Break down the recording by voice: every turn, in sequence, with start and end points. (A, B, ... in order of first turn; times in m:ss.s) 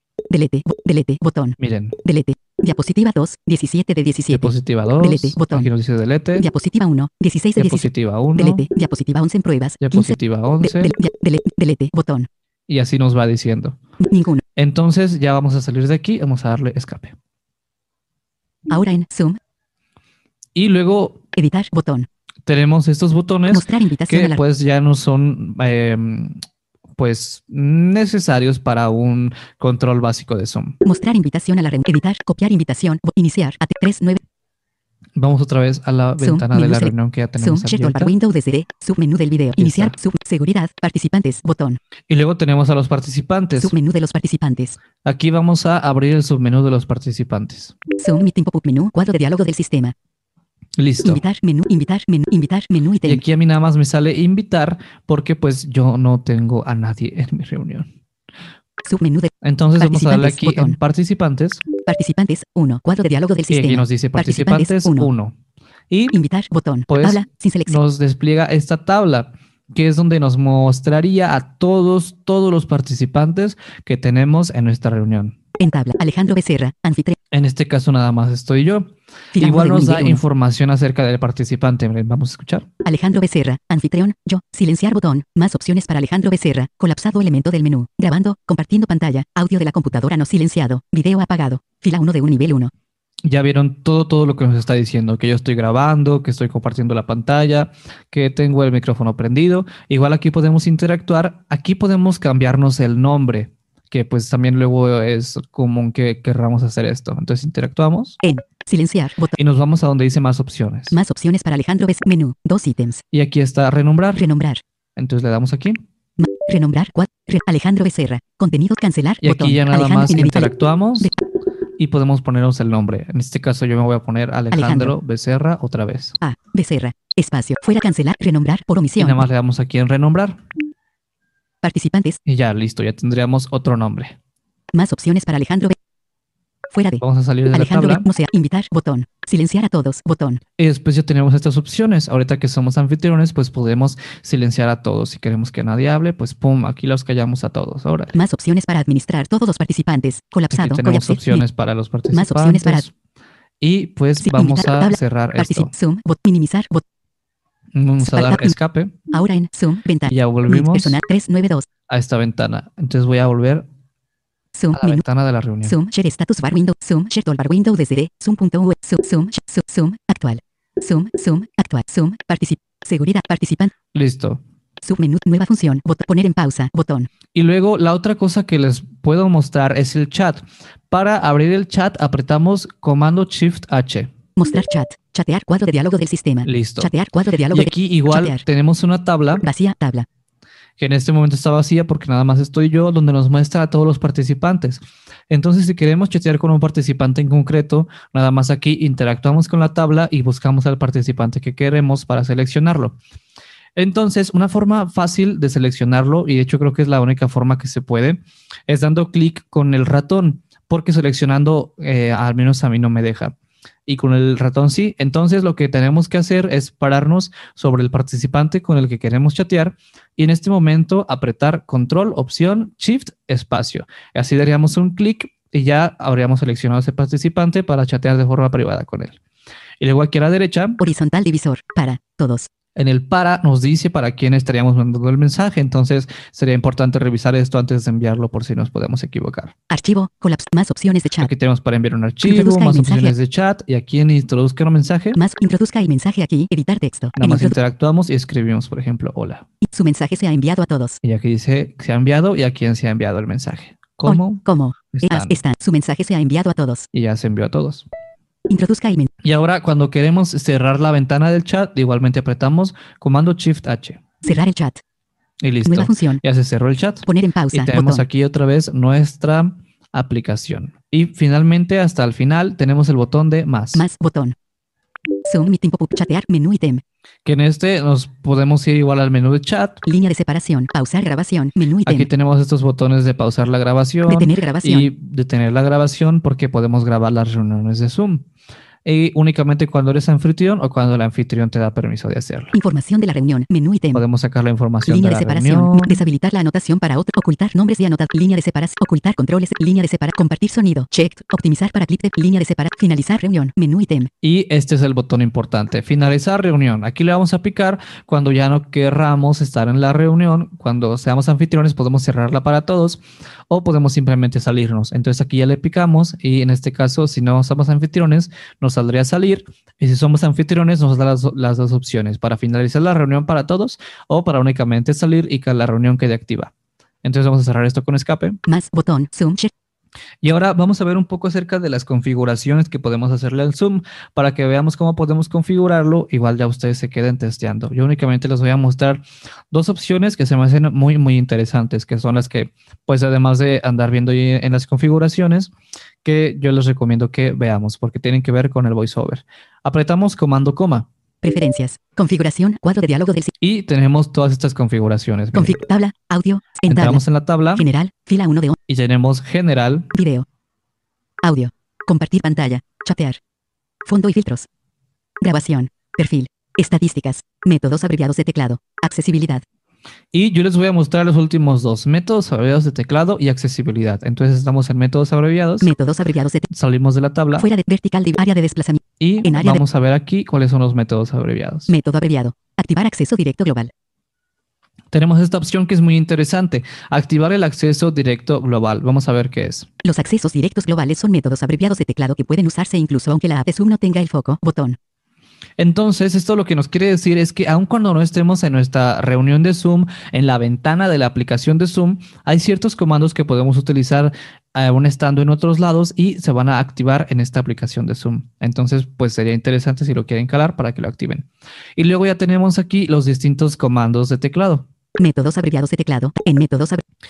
0:00.3-0:05.7 A
0:01.6-0:02.0 B
0:04.3-0:06.5 B
0:06.4-0:12.3 A
0:07.6-0:08.6 B
0:09.8-0:10.9 B
0:12.7-0:13.8 B
0:14.0-0:14.4 A
0:14.6-0:17.2 B
0:18.7-0:19.4 A
0:20.5-0:21.2 B
0:21.3-0:22.1 A
0:22.4-0:26.4 B
0:23.5-0:24.4 A
0:27.0-0:30.8 B
0:30.8-0:34.2 A
0:35.2-0:38.1 B
0:36.2-0:41.8 A
0:39.6-0:39.9 B
0:42.1-0:43.7 B
0:43.6-0:44.8 A
0:45.0-0:47.7 B
0:47.9-0:49.9 A
0:50.8-0:51.2 B
0:51.0-0:53.2 A
0:53.0-0:57.9 B
0:58.8-1:00.8 A
0:59.4-1:01.6 B
1:01.8-1:05.1 A
1:03.5-1:05.3 B
1:05.9-1:06.2 B
1:06.1-1:07.8 A
1:06.9-1:15.4 B
1:15.6-1:17.2 A
1:17.3-1:22.7 B
1:19.3-1:20.2 A
1:22.8-1:32.7 A
1:33.2-1:48.2 B
1:48.2-1:49.4 A
1:49.4-1:51.0 B
1:50.9-1:53.0 A
1:53.1-1:54.2 B
1:54.2-1:54.6 A
1:55.0-1:55.8 B
1:56.2-2:01.1 A
1:59.2-2:01.1 B
2:01.8-2:06.2 B
2:04.5-2:05.0 A
2:06.2-2:09.2 A
2:09.0-2:10.4 B
2:11.6-2:12.2 A
2:12.2-2:14.2 B
2:14.7-2:15.8 A
2:16.7-2:20.4 A
2:17.0-2:18.1 B
2:20.6-2:28.2 B
2:28.1-2:31.4 A
2:30.5-2:32.9 B
2:32.1-2:32.8 A
2:33.6-2:35.7 B
2:34.2-2:36.8 A
2:37.7-2:38.9 B
2:38.0-2:38.6 A
2:39.1-2:41.7 A
2:40.1-2:41.0 B
2:41.9-2:43.6 B
2:44.5-2:45.0 A
2:44.7-2:45.8 B
2:45.6-2:53.7 A
2:53.9-2:54.4 B
2:54.8-2:57.1 A
2:57.3-3:04.1 B
3:04.4-3:08.4 A
3:06.4-3:06.9 B
3:07.5-3:09.5 B
3:09.4-3:10.1 A
3:10.8-3:23.0 B
3:23.8-3:33.3 B
3:33.9-3:49.2 B
3:49.8-3:50.8 B
3:50.8-3:52.5 A
3:52.7-3:59.5 B
3:59.7-4:01.3 A
4:01.2-4:05.2 B
4:02.2-4:03.2 A
4:05.1-4:07.6 A
4:07.2-4:09.4 B
4:09.6-4:11.0 A
4:11.0-4:15.4 B
4:14.0-4:16.9 A
4:16.9-4:17.9 B
4:18.5-4:19.1 A
4:19.2-4:24.0 B
4:24.2-4:24.8 A
4:25.4-4:33.8 B
4:25.6-4:26.2 A
4:27.0-4:28.0 A
4:33.7-4:34.3 A
4:35.2-4:36.8 A
4:37.2-4:39.8 B
4:39.8-4:42.1 A
4:41.8-4:48.3 B
4:44.1-4:44.9 A
4:48.8-4:52.5 B
4:52.5-4:54.0 A
4:53.9-4:56.0 B
4:54.8-5:04.1 A
5:04.2-5:26.5 B
5:27.0-5:28.4 B
5:28.5-5:29.5 A
5:30.2-5:45.5 B
5:46.0-5:50.9 B
5:51.2-5:53.3 A
5:53.4-5:55.6 B
5:55.3-5:57.0 A
5:56.7-5:57.7 B
5:57.5-5:58.6 A
5:58.7-5:59.9 B
5:59.9-6:00.2 A
6:01.2-6:03.2 A
6:03.8-6:04.5 A
6:05.2-6:09.4 A
6:10.1-6:15.7 B
6:15.6-6:16.5 A
6:16.5-6:17.5 B
6:17.4-6:19.6 A
6:19.0-6:21.7 B
6:21.7-6:23.7 A
6:24.9-6:29.7 B
6:29.8-6:34.8 A
6:35.6-6:54.7 B
6:55.0-6:56.8 A